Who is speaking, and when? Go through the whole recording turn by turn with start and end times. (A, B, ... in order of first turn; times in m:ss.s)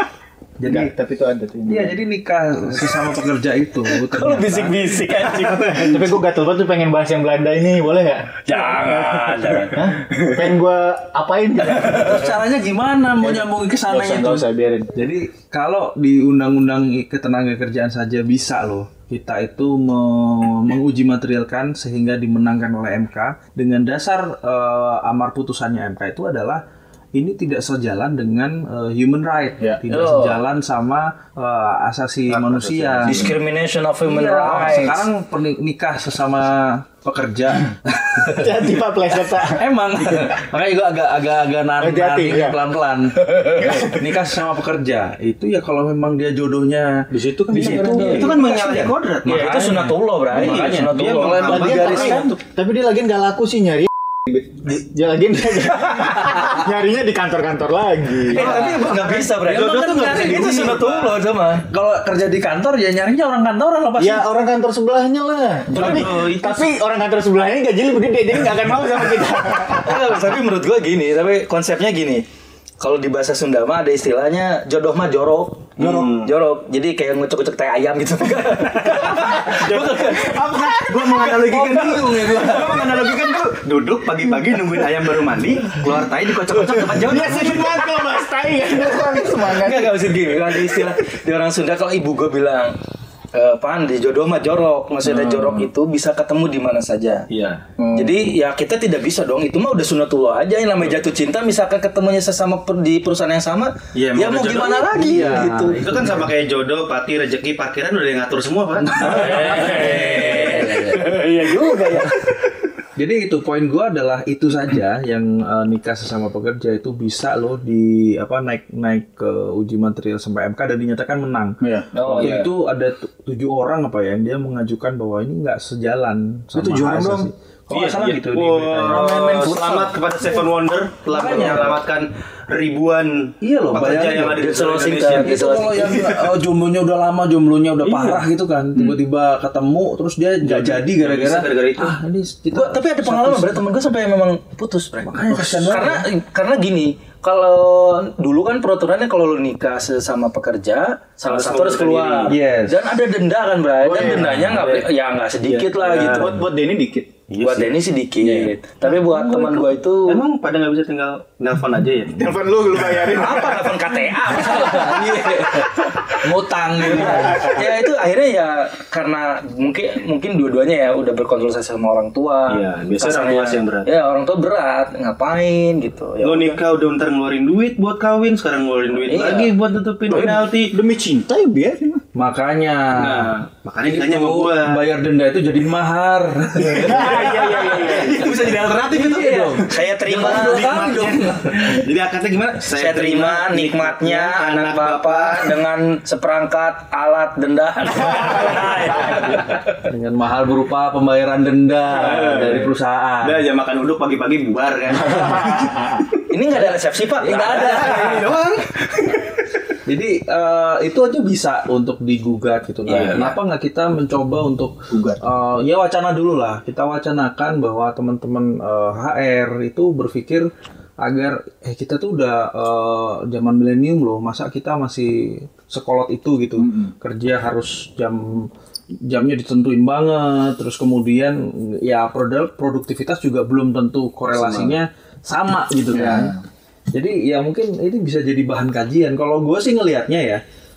0:00.6-0:00.9 A
0:00.7-0:02.0 B
0:01.7-0:04.8 A
0:04.0-0:05.8 C
0:05.0-0:06.2 D
0:05.5-0:12.4 B
0:08.4-0:09.9 C
0:11.7-0:26.6 A
0:13.2-0:14.9 B
0:27.2-0:33.3 A
0:29.9-0:30.4 C
0:32.3-0:33.1 D
0:33.0-0:35.1 C
0:34.0-0:38.6 A
0:38.2-0:39.6 B
0:39.4-0:52.3 A
0:41.8-0:42.6 B
0:43.6-0:43.9 B
0:47.1-0:48.9 B
0:47.6-0:49.8 D
0:48.0-0:48.2 C
0:49.2-0:52.3 C
0:50.3-0:52.3 D
0:51.4-0:58.6 B
0:58.3-1:01.2 D
0:58.3-1:01.7 C
0:59.5-1:00.9 A
1:01.6-1:04.3 A
1:04.0-1:10.2 B
1:05.7-1:06.7 D
1:09.8-1:12.2 C
1:12.8-1:20.5 C
1:15.8-1:16.3 D
1:18.8-1:27.9 D
1:19.8-1:23.3 B
1:21.8-1:22.5 A
1:26.8-1:30.9 B
1:29.2-1:32.8 C
1:33.3-1:37.3 C
1:37.3-1:37.6 D
1:37.8-1:38.2 B
1:37.9-1:45.9 C
1:43.9-1:50.7 D
1:44.9-1:46.2 A
1:48.8-1:51.1 A
1:49.0-1:52.3 C
1:53.0-2:01.6 A
2:01.6-2:01.9 B
2:01.9-2:02.5 C
2:02.1-2:02.4 D
2:02.2-2:09.5 A
2:06.6-2:07.3 B
2:07.7-2:16.3 D
2:08.9-2:09.9 B
2:11.1-2:11.8 A
2:13.4-2:14.4 A
2:14.3-2:15.9 C
2:15.1-2:23.6 A
2:17.8-2:18.2 D
2:20.4-2:22.0 D
2:22.5-2:36.3 C
2:25.0-2:26.0 A
2:31.3-2:32.4 D
2:32.3-2:32.9 A
2:33.8-2:34.6 B
2:34.0-2:34.5 A
2:34.4-2:34.8 D
2:35.5-2:36.4 D
2:35.8-2:37.1 B
2:37.3-2:42.3 D
2:37.4-2:40.2 C
2:42.1-2:43.9 B
2:43.1-2:45.8 C
2:44.3-2:47.5 A
2:46.9-2:56.6 C
2:52.5-2:53.9 D
2:56.2-3:00.8 D
2:59.0-2:59.6 C
3:00.1-3:02.0 B
3:02.2-3:07.6 A
3:03.0-3:04.8 D
3:06.8-3:08.4 B
3:06.8-3:15.6 D
3:08.8-3:11.8 A
3:08.9-3:10.8 C
3:12.7-3:19.6 C
3:19.8-3:23.4 A
3:21.9-3:26.1 D
3:25.1-3:26.0 B
3:26.3-3:28.2 C
3:26.6-3:28.4 A
3:27.4-3:29.3 D
3:29.8-3:40.5 A
3:32.9-3:33.3 D
3:32.9-3:33.3 C
3:34.9-3:35.2 B
3:41.0-3:56.4 A
3:46.6-3:46.9 B
3:54.3-3:54.8 D
3:55.9-3:56.4 B
3:56.9-4:00.4 A